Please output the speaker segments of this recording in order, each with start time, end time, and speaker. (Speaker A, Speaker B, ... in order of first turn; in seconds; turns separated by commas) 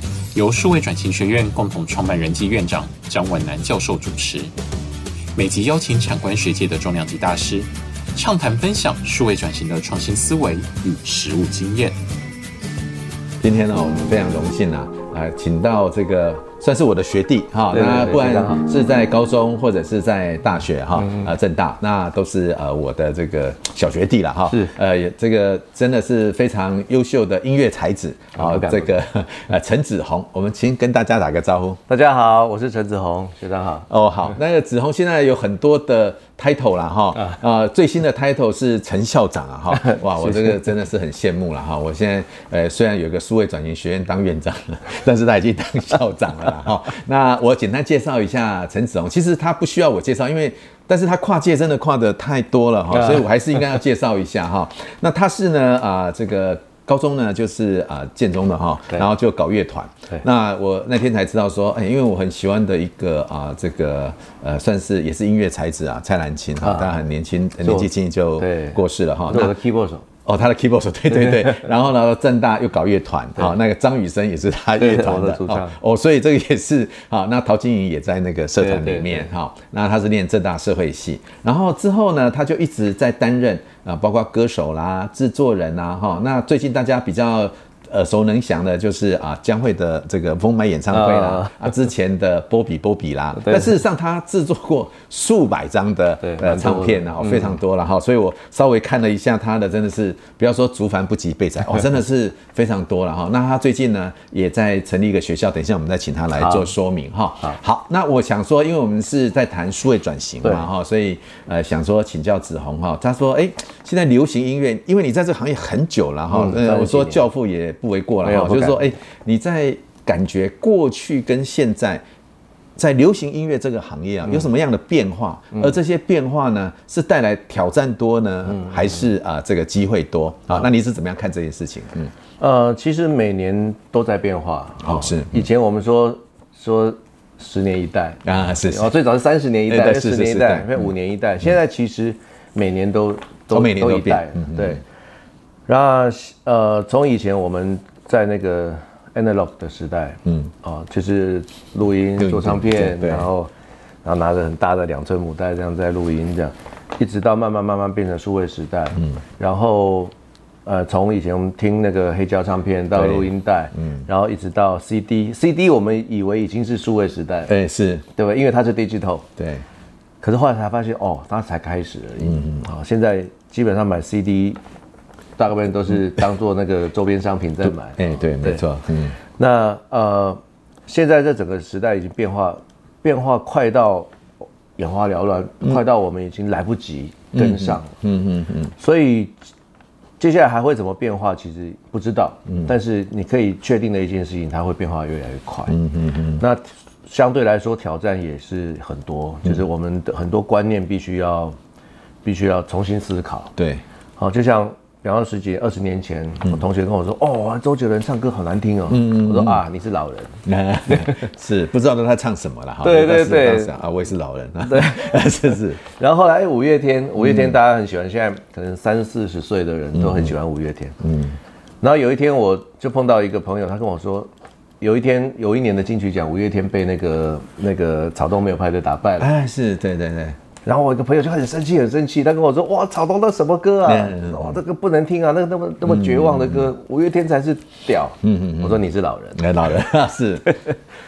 Speaker A: 0.3-4.5, Speaker A: 5.3-12.0, Speaker B: 13.4-31.8, Speaker C: 17.7-18.6, Speaker C: 28.4-28.9, Speaker C: 31.9-33.9, Speaker B: 33.9-69.5, Speaker C: 39.8-40.6, Speaker C: 52.9-53.2, Speaker C: 66.6-66.9, Speaker C: 67.6-70.0, Speaker B: 70.2-122.0, Speaker C: 71.1-71.6, Speaker C: 74.8-75.8, Speaker C: 78.6-79.3, Speaker C: 90.9-91.6, Speaker C: 93.4-93.7, Speaker C: 96.2-97.5, Speaker C: 106.4-106.7, Speaker C: 116.3-117.2, Speaker C: 118.2-118.8, Speaker B: 122.8-132.1, Speaker C: 132.4-144.8, Speaker B: 134.8-135.4, Speaker B: 138.2-138.9, Speaker B: 139.7-140.9, Speaker B: 143.5-144.8, Speaker C: 145.7-153.5, Speaker B: 150.2-150.5, Speaker B: 152.2-153.3, Speaker C: 154.0-160.1, Speaker C: 160.7-167.5, Speaker B: 162.9-164.1, Speaker B: 167.5-168.0, Speaker C: 168.1-169.3, Speaker B: 169.4-169.6, Speaker C: 170.2-174.6, Speaker B: 172.2-172.7, Speaker C: 175.4-178.6, Speaker B: 177.7-179.2, Speaker C: 179.4-184.1, Speaker C: 184.8-187.9, Speaker B: 187.3-188.7, Speaker C: 188.8-189.4, Speaker C: 190.2-195.8, Speaker B: 195.7-196.4, Speaker C: 196.4-201.6, Speaker C: 202.2-203.5, Speaker B: 203.6-203.8, Speaker C: 204.2-211.2, Speaker B: 208.9-209.6, Speaker B: 210.4-215.8, Speaker C: 212.8-213.7, Speaker C: 214.6-215.3, Speaker C: 215.8-221.0, Speaker B: 217.2-217.5, Speaker B: 219.9-220.3, Speaker B: 221.0-221.4, Speaker C: 221.8-229.3, Speaker B: 229.2-230.4, Speaker C: 230.7-239.5, Speaker B: 233.8-234.6, Speaker B: 235.8-236.7, Speaker B: 238.2-238.8, Speaker B: 239.4-240.5, Speaker C: 240.4-240.7